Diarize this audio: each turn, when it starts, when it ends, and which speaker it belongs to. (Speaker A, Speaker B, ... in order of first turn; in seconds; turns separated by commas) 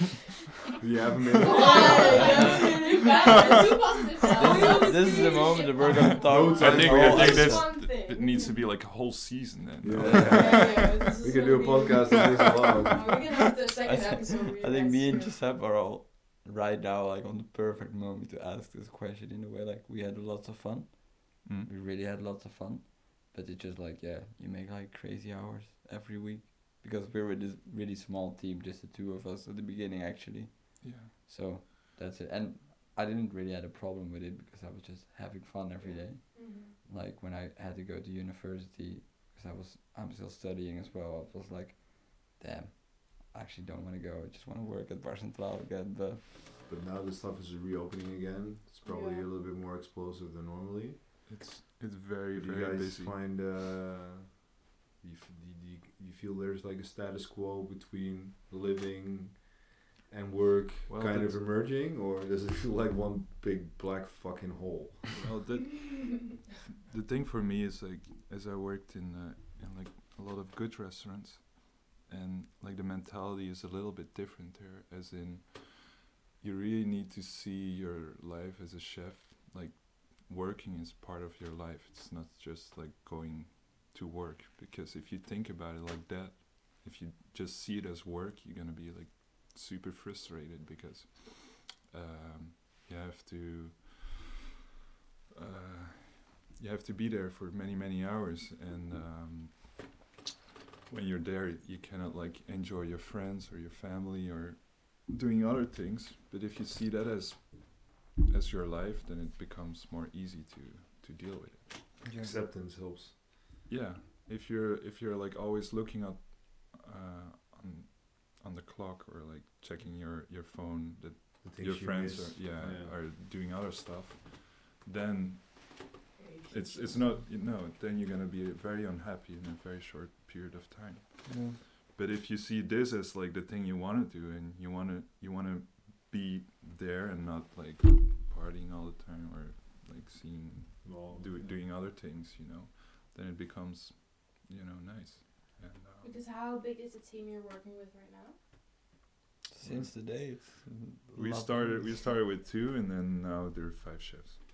Speaker A: 0.8-2.2, Speaker B: 1.4-8.5, Speaker C: 1.4-6.8, Speaker D: 2.1-2.6, Speaker D: 4.3-7.6, Speaker E: 5.9-11.0, Speaker A: 6.2-7.7, Speaker A: 9.8-13.1, Speaker D: 9.9-10.7, Speaker B: 10.3-15.4, Speaker D: 13.8-46.2, Speaker E: 21.4-21.7, Speaker E: 30.8-31.2, Speaker C: 36.3-36.8, Speaker A: 46.6-51.0, Speaker B: 48.9-49.3, Speaker E: 51.2-53.2, Speaker A: 52.3-65.1, Speaker E: 60.9-61.5, Speaker E: 65.2-66.3, Speaker E: 66.9-94.4, Speaker E: 95.3-100.0, Speaker E: 100.9-111.8, Speaker D: 112.0-112.3, Speaker A: 112.2-113.1, Speaker E: 113.7-146.2, Speaker A: 121.4-123.0, Speaker B: 126.2-127.2, Speaker D: 131.2-131.6, Speaker A: 140.8-141.6, Speaker C: 146.0-148.4, Speaker D: 149.5-151.9, Speaker E: 149.6-149.9, Speaker E: 151.1-154.4